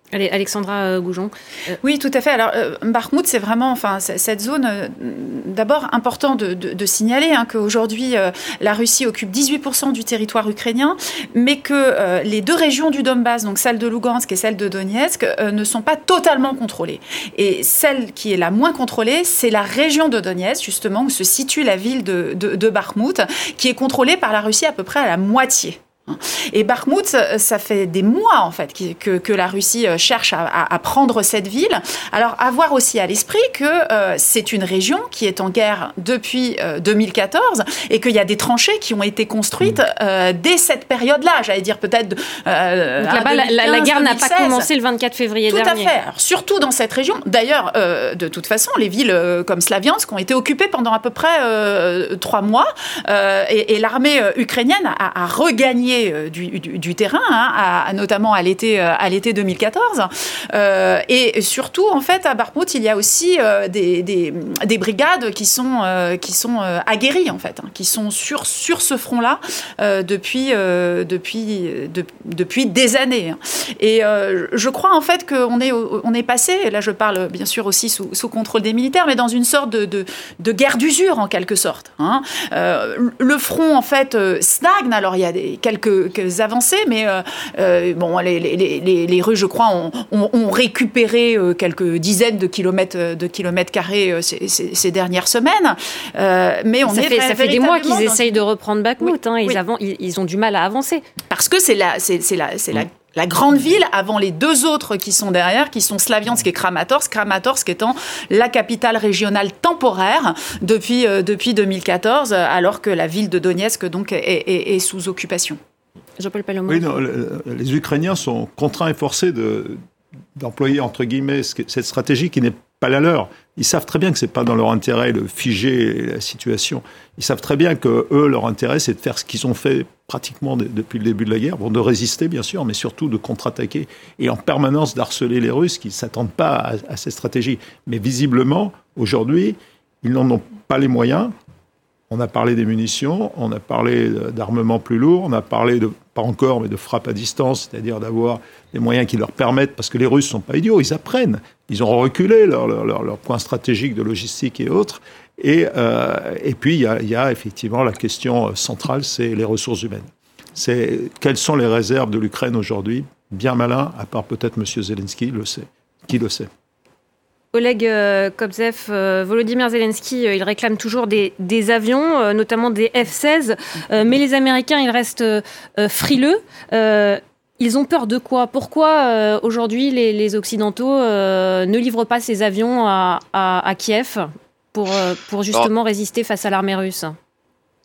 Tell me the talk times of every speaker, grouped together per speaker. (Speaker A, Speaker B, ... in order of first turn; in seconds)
Speaker A: 0.1-1.8, 43.0-45.9, 96.8-101.0, 116.2-116.9, 167.5-187.2
Speaker B: 1.8-44.7, 45.5-98.4, 99.0-99.6, 101.3-115.6
Speaker C: 116.7-119.8, 120.4-141.3, 142.1-166.5